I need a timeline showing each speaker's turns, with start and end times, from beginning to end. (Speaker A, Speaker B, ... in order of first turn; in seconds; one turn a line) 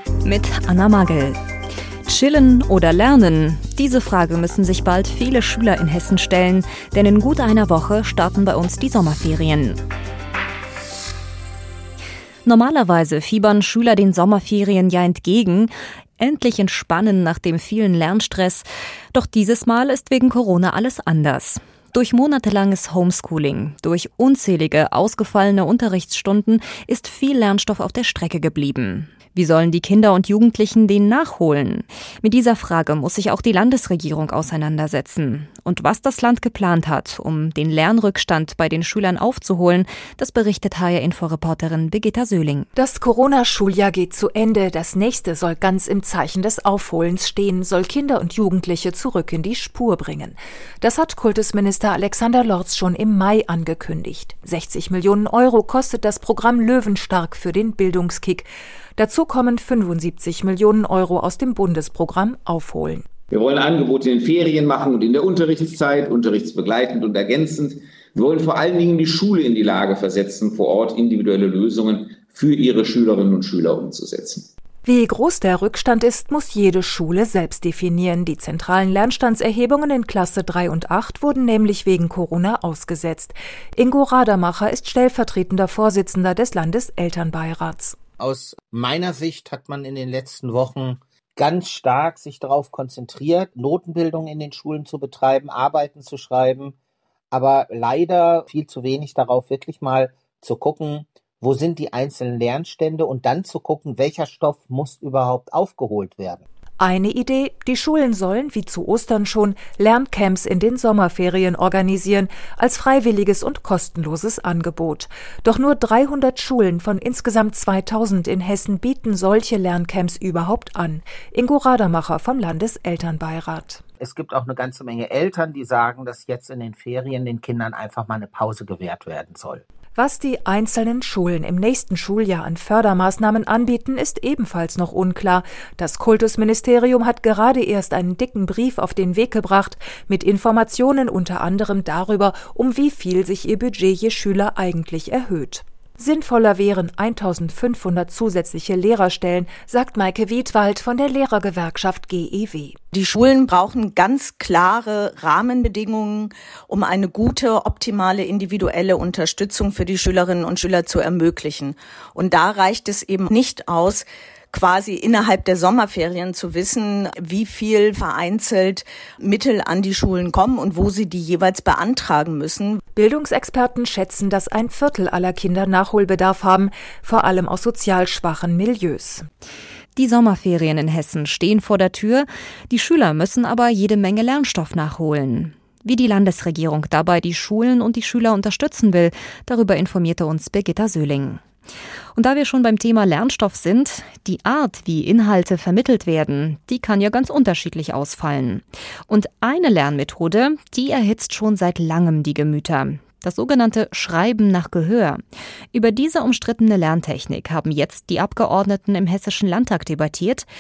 Speaker A: 0.2-1.4
Speaker A: 2.1-9.8
Speaker A: 12.4-42.7
Speaker B: 42.8-63.0
Speaker C: 64.1-64.9
Speaker C: 65.5-67.8
Speaker C: 73.7-74.3
Speaker B: 74.8-88.0
Speaker D: 88.2-96.8
Speaker D: 97.3-106.4
Speaker B: 106.8-123.8
Speaker D: 124.0-129.6
Speaker B: 129.9-152.8
Speaker E: 152.9-172.8
Speaker B: 173.0-179.3
Speaker A: 180.0-191.4
Speaker A: 192.2-205.2
Speaker A: 205.7-210.5